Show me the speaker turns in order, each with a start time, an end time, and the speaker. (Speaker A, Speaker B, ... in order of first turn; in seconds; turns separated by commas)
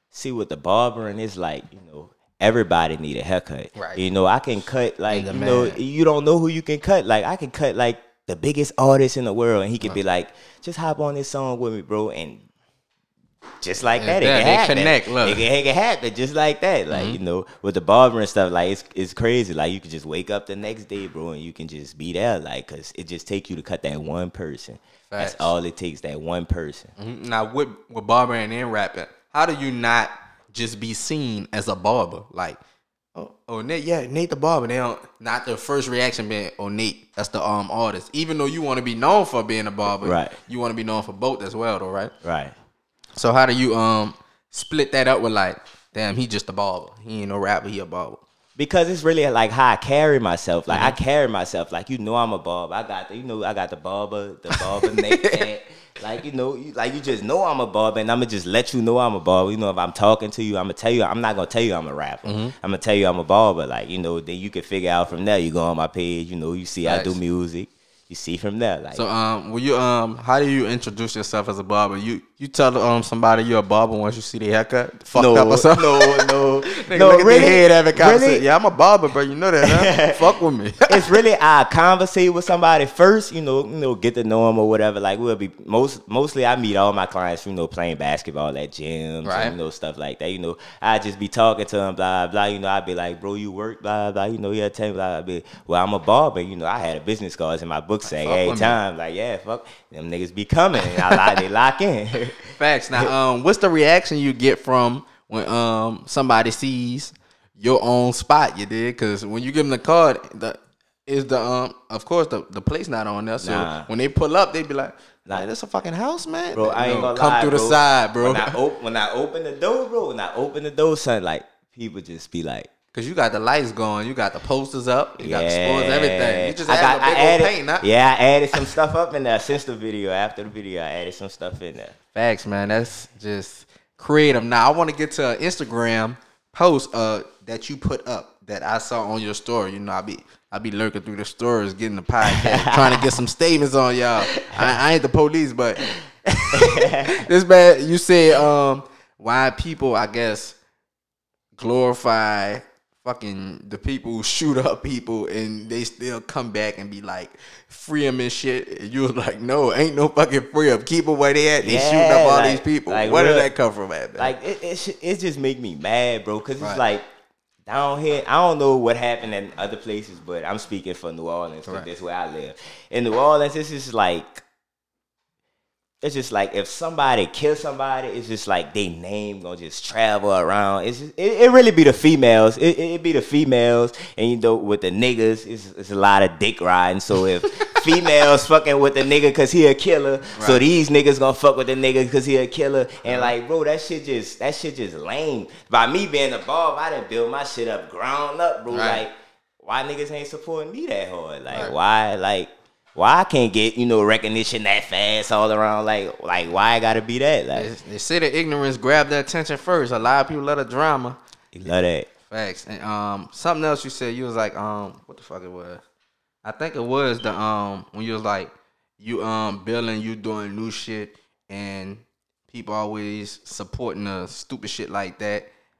Speaker A: 0.1-12.4, Speaker B: 3.8-4.0, Speaker B: 5.1-5.8, Speaker A: 13.6-26.9, Speaker B: 14.0-15.4, Speaker B: 16.9-17.2, Speaker B: 25.1-25.5, Speaker B: 27.0-32.6, Speaker B: 33.1-42.1, Speaker A: 40.0-40.4, Speaker A: 42.2-42.5, Speaker B: 43.1-48.2, Speaker A: 48.6-69.0, Speaker B: 50.7-51.0, Speaker B: 54.5-55.5, Speaker B: 62.2-62.5, Speaker B: 66.8-67.1, Speaker B: 68.9-81.2, Speaker A: 75.1-78.4, Speaker A: 79.6-80.2, Speaker A: 80.9-103.1, Speaker B: 89.2-89.5, Speaker B: 98.1-98.8, Speaker B: 100.8-101.2, Speaker B: 102.6-118.5, Speaker A: 113.4-113.9, Speaker A: 116.5-122.7, Speaker B: 122.9-127.8, Speaker A: 125.2-131.9, Speaker B: 132.1-150.6, Speaker A: 142.2-143.1, Speaker A: 144.3-144.6, Speaker A: 146.5-147.2, Speaker B: 151.5-164.3, Speaker A: 161.6-163.5, Speaker A: 164.2-167.0, Speaker A: 167.7-174.4, Speaker A: 176.0-207.7, Speaker B: 190.3-190.6, Speaker B: 193.1-193.3, Speaker B: 198.7-199.0, Speaker B: 207.5-211.2, Speaker A: 211.5-212.1, Speaker B: 212.3-215.8, Speaker B: 216.4-225.5